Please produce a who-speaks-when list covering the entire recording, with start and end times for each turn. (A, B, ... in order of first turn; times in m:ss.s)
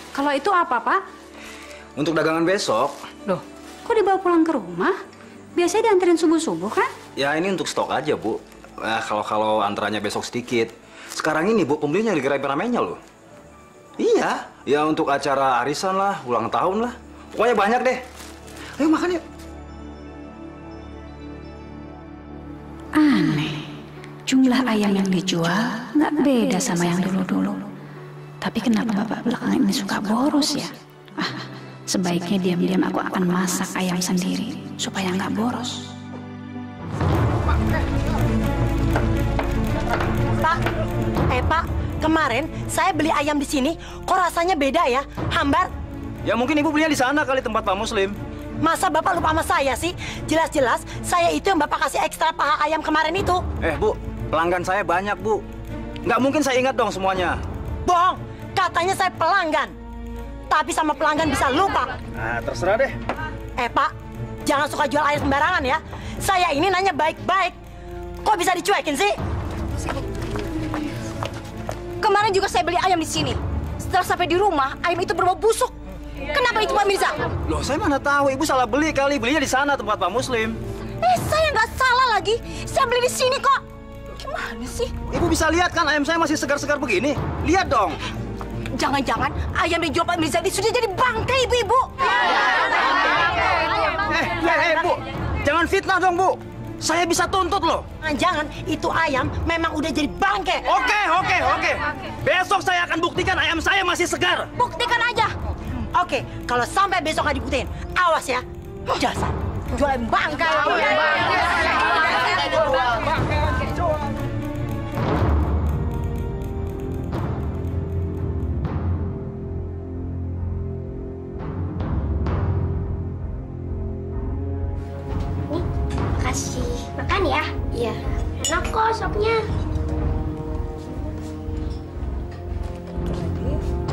0:00.1-0:01.0 A
0:02.0-0:03.0 B
0:03.3-0:05.0 A
0:05.6-0:06.9 A
0:07.2-0:13.0 B
0:14.0-0:18.0 B
0:18.8-0:19.2 B
0:23.0-0:23.6 C
0:24.3-0:27.6 C
0:28.4-0:35.8 C
0:41.3-0:45.7 D
0:46.2-0:48.2 B
0:48.6-0:53.4 D
0:53.6-0:55.4 B
0:56.0-0:57.4 B
0:57.8-0:59.7 D
1:00.5-1:01.9 D
1:02.2-1:03.0 B
1:03.6-1:03.9 D
1:04.4-1:07.5 D
1:08.2-1:09.2 D
1:09.8-1:10.1 E
1:12.0-1:15.7 E
1:16.3-1:17.2 E
1:17.5-1:20.6 B
1:21.0-1:23.6 E
1:24.2-1:24.9 E
1:25.1-1:28.0 B
1:28.7-1:34.0 E
1:33.9-1:37.8 B
1:38.0-1:40.6 D
1:40.6-1:44.5 B
1:44.6-1:45.3 E
1:45.9-1:51.2 D
1:49.8-1:52.6 E
2:06.2-2:09.4 F